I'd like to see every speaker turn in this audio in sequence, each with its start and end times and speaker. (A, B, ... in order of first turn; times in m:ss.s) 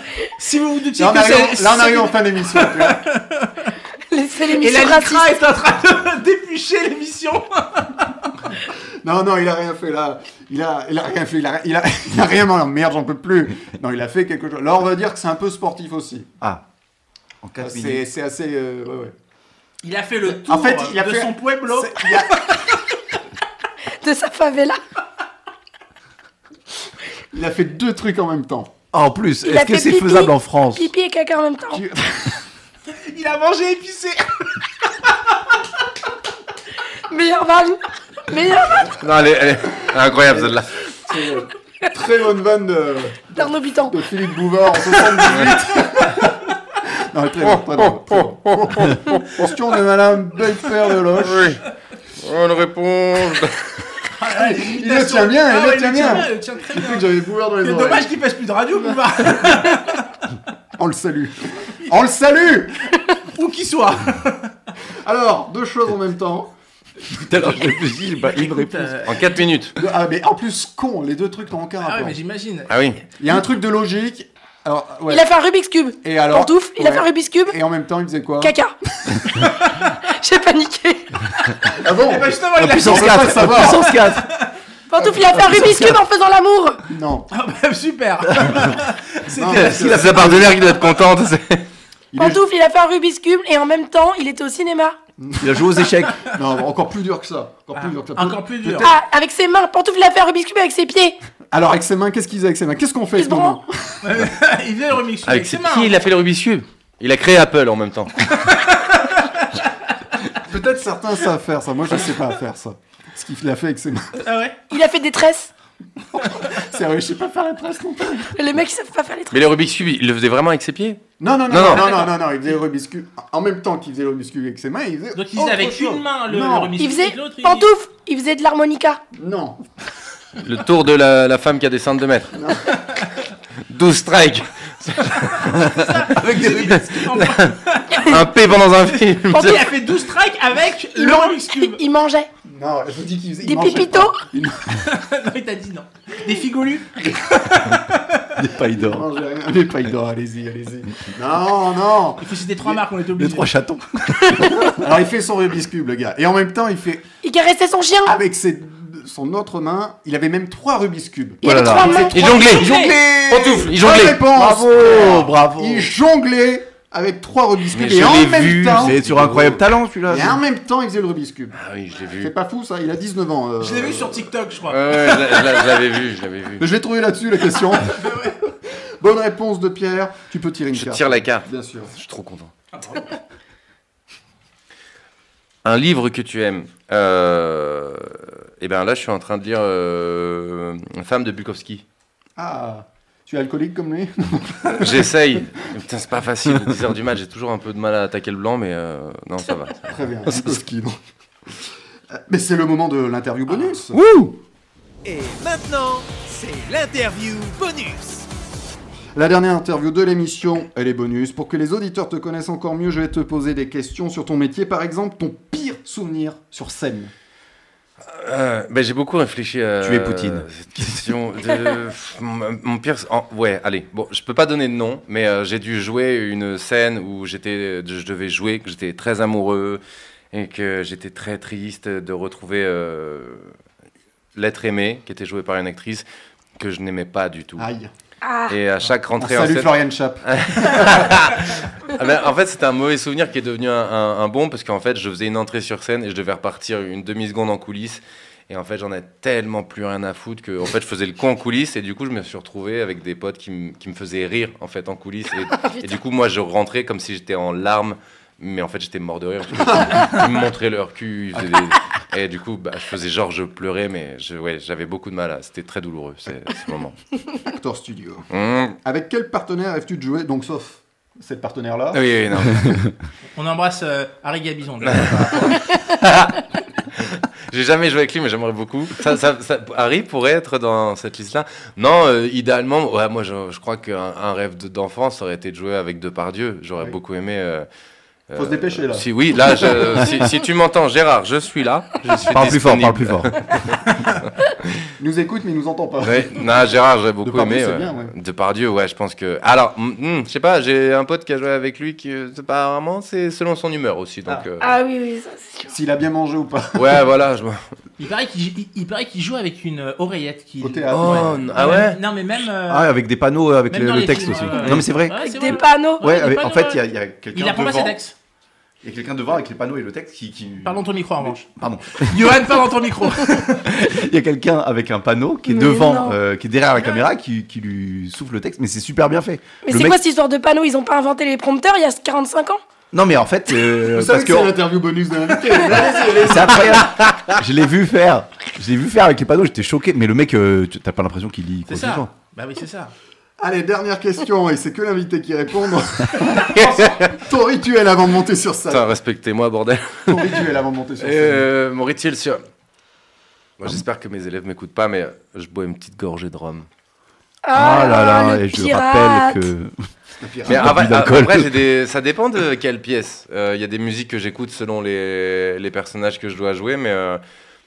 0:00.2-0:03.7 A
0:01.0-0:03.0 B
0:04.1-0:05.4 C
0:04.5-0:08.4 A
0:09.0-0:16.3 B
0:17.4-0:18.0 D
0:17.6-0:19.1 B
0:19.8-0:23.0 A
0:20.2-0:22.5 B
0:24.0-0:24.8 C
0:27.3-0:28.7 B
0:28.9-0:30.9 D
0:29.4-0:31.8 C
0:31.7-0:32.4 B
0:32.9-0:35.3 A
0:37.1-0:38.9 C
0:39.0-0:40.7 E
0:39.8-0:51.5 B
0:43.3-0:44.0 C
0:47.4-0:49.3 E
0:51.2-0:51.6 E
0:52.2-0:53.8 E
0:54.2-0:57.1 A
0:54.3-0:58.1 B
0:57.6-1:00.0 A
1:00.8-1:02.8 B
1:02.9-1:04.5 A
1:05.0-1:06.5 B
1:07.1-1:09.1 D
1:08.2-1:09.4 A
1:09.0-1:09.7 E
1:09.8-1:12.2 B
1:11.8-1:13.0 A
1:12.7-1:13.0 E
1:13.2-1:15.2 B
1:15.1-1:17.6 C
1:16.0-1:18.5 B
1:18.4-1:18.7 C
1:19.4-1:19.9 A
1:20.1-1:21.1 C
1:21.7-1:24.5 A
1:21.8-1:24.0 B
1:22.6-1:24.3 D
1:24.9-1:26.8 C
1:25.0-1:25.9 B
1:25.4-1:25.9 D
1:26.9-1:27.3 B
1:27.3-1:30.0 A
1:29.3-1:30.6 B
1:29.5-1:31.7 E
1:32.1-1:32.4 B
1:32.2-1:35.0 C
1:35.2-1:38.9 B
1:35.4-1:36.2 D
1:37.7-1:38.9 A
1:38.8-1:41.2 C
1:41.5-1:44.0 B
1:43.2-1:43.6 C
1:44.0-1:46.0 A
1:45.2-1:48.3 E
1:48.3-1:49.7 A
1:50.4-1:54.2 B
1:54.2-1:54.6 A
1:54.7-1:55.5 C
1:56.1-1:58.4 B
1:58.3-1:59.4 C
1:59.3-2:02.0 E
2:01.2-2:06.8 B
2:01.8-2:02.1 A
2:05.1-2:07.7 A
2:06.8-2:09.0 C
2:09.1-2:09.6 B
2:10.4-2:12.4 E
2:12.3-2:12.8 B
2:13.7-2:15.7 E
2:15.7-2:18.2 A
2:16.2-2:17.2 D
2:16.5-2:19.7 E
2:19.2-2:21.8 A
2:20.9-2:22.3 C
2:22.4-2:24.8 B
2:23.4-2:24.2 C
2:24.8-2:28.4 A
2:28.4-2:29.0 D
2:28.8-2:32.8 B
2:32.2-2:33.5 A
2:33.1-2:34.7 D
2:34.2-2:34.7 C
2:34.7-2:37.0 B
2:37.2-2:38.2 C
2:38.0-2:42.4 B
2:41.4-2:42.2 C
2:41.4-2:45.9 D
2:42.1-2:44.2 E
2:42.6-2:42.9 A
2:43.7-2:49.0 B
2:47.7-2:49.6 E
2:48.8-2:50.4 D
2:50.1-2:51.6 B
2:51.5-2:52.3 E
2:52.1-2:54.3 B
2:53.6-2:55.7 A
2:54.7-2:56.6 E
2:56.6-3:01.9 B
2:57.9-2:58.3 A
3:00.7-3:02.5 E
3:02.7-3:03.1 A
3:05.6-3:11.8 E
3:12.4-3:15.1 B
3:14.7-3:20.6 E
3:19.8-3:21.0 B
3:22.1-3:24.0 B
3:24.0-3:24.3 D
3:25.0-3:28.3 F
3:29.1-3:37.1 B
3:38.0-3:49.8 E
3:39.8-3:41.2 D
3:50.3-3:53.5 E
3:54.3-3:56.0 E
3:56.6-3:57.7 E
3:57.6-3:57.9 B
3:58.2-3:58.6 C
3:58.5-4:27.0 E
3:59.2-4:01.1 B
4:15.6-4:16.0 C
4:19.6-4:20.0 B
4:27.4-4:28.2 B
4:28.3-4:28.8 E
4:28.8-4:32.0 B
4:31.9-4:32.8 E
4:33.3-4:35.6 A
4:34.8-4:47.6 E
4:48.3-4:53.9 E
4:48.4-4:50.1 B
4:52.3-4:53.5 D
4:55.0-4:56.7 B
4:56.0-5:04.7 E
4:57.2-4:58.1 B
5:04.6-5:05.7 C
5:05.7-5:07.0 B
5:06.7-5:07.6 E
5:08.0-5:12.9 A
5:10.6-5:11.5 B
5:10.9-5:12.0 E
5:12.7-5:15.2 D
5:13.7-5:16.8 A
5:14.5-5:14.8 B
5:15.1-5:16.1 C
5:16.0-5:18.0 D
5:17.3-5:18.1 A
5:18.8-5:22.6 D
5:20.6-5:21.5 A
5:22.0-5:23.7 A
5:23.6-5:30.0 D
5:25.5-5:26.2 C
5:26.7-5:27.0 A
5:29.6-5:32.6 C
5:32.9-5:34.6 D
5:33.9-5:36.9 B
5:36.2-5:42.1 D
5:41.6-5:42.9 A
5:43.4-5:48.9 B
5:46.4-5:47.2 E
5:48.7-5:50.4 E
5:50.1-5:51.5 B
5:51.0-5:52.4 E
5:53.6-5:56.6 E
5:57.4-5:59.5 C
5:57.5-5:59.7 D
6:00.2-6:00.9 B
6:00.4-6:01.6 D
6:00.5-6:07.2 E